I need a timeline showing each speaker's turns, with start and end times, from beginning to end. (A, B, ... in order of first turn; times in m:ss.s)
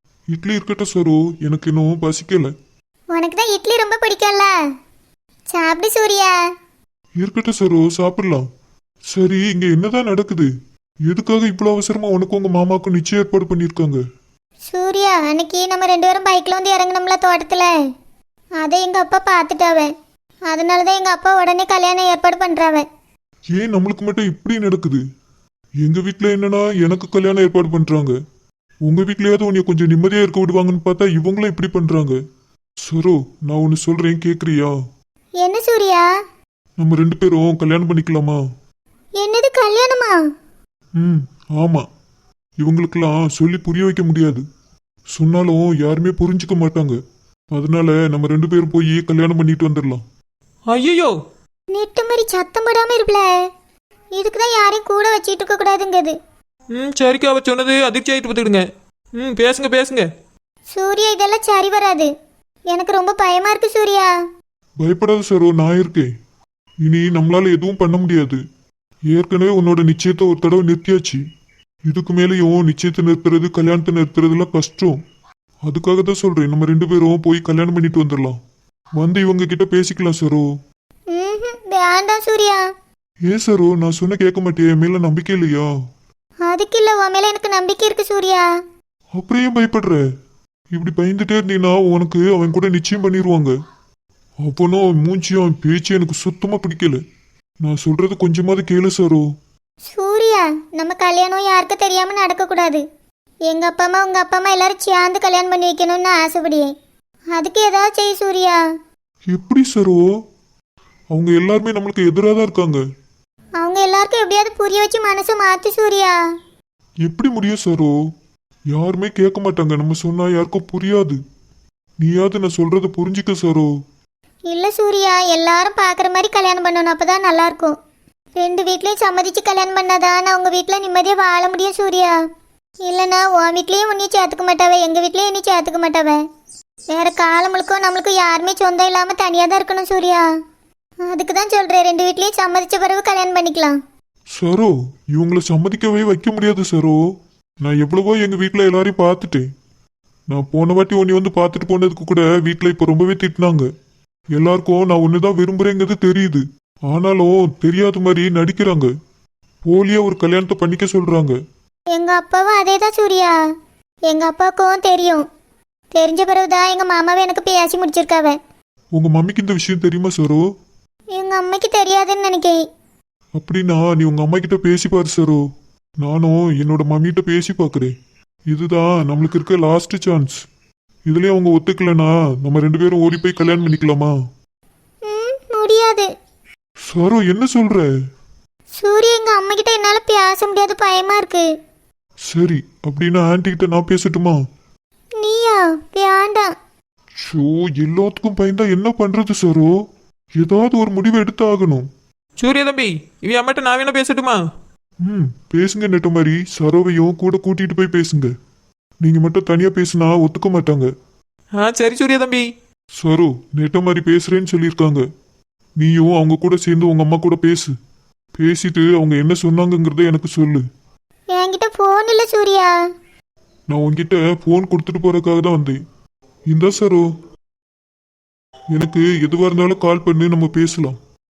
0:00.3-0:02.5 A
0:03.1-0:04.5 B
0:05.5-0:06.4 B
0:07.2-0:08.4 A
0:09.1-0:10.5 A
0:11.1-0:14.0 A
0:14.7-0:17.7 B
0:18.6-0:19.9 B
0:20.5-0:22.9 B
0:23.5-0:25.0 A
0:25.8-0:28.2 A
0:28.8-0:32.2 A
0:32.9-0:34.8 A
0:35.4-0:36.1 B
0:36.8-0:38.4 A
0:39.2-0:40.2 B
0:41.0-0:41.8 A
0:42.6-0:44.4 A
0:45.1-0:47.0 A
0:47.5-0:50.0 A
0:50.7-0:51.1 C
0:51.7-0:53.3 B
0:54.2-0:56.2 B
0:56.7-0:58.6 C
0:59.2-1:00.1 C
1:00.7-1:02.1 B
1:02.7-1:04.1 B
1:04.8-1:06.1 A
1:06.8-1:08.4 A
1:09.1-1:11.2 A
1:11.9-1:15.0 A
1:15.6-1:18.4 A
1:19.0-1:20.5 A
1:21.1-1:22.6 B
1:23.3-1:25.7 A
1:26.4-1:28.5 B
1:29.2-1:30.0 A
1:30.7-1:33.5 A
1:34.4-1:37.0 A
1:37.6-1:39.2 A
1:39.9-1:42.8 B
1:43.5-1:46.7 B
1:47.4-1:48.6 B
1:49.3-1:50.0 A
1:51.1-1:52.8 A
1:53.6-1:56.2 B
1:57.0-1:57.9 A
1:58.7-2:01.2 A
2:02.0-2:03.7 A
2:04.5-2:07.8 B
2:08.4-2:12.2 B
2:12.9-2:16.2 B
2:16.9-2:20.2 B
2:21.1-2:23.8 B
2:24.4-2:27.0 A
2:27.6-2:29.5 A
2:30.3-2:33.7 A
2:34.4-2:38.9 A
2:39.6-2:41.4 A
2:42.0-2:43.4 B
2:44.1-2:45.2 B
2:45.9-2:48.4 B
2:49.0-2:50.4 A
2:51.2-2:52.6 B
2:53.4-2:55.4 A
2:56.0-2:57.9 A
2:58.5-3:00.4 A
3:01.1-3:04.1 A
3:05.1-3:06.1 B
3:06.9-3:07.9 A
3:08.8-3:11.5 B
3:12.3-3:14.4 A
3:15.2-3:16.5 B
3:17.2-3:19.7 A
3:20.4-3:21.9 A
3:22.4-3:24.4 C
3:25.0-3:28.3 A
3:29.0-3:30.9 A
3:31.6-3:32.5 C
3:33.0-3:35.0 A
3:35.8-3:37.7 A
3:38.4-3:40.6 A
3:41.3-3:42.7 B
3:43.7-3:45.8 A
3:46.5-3:47.0 A
3:48.7-3:51.0 A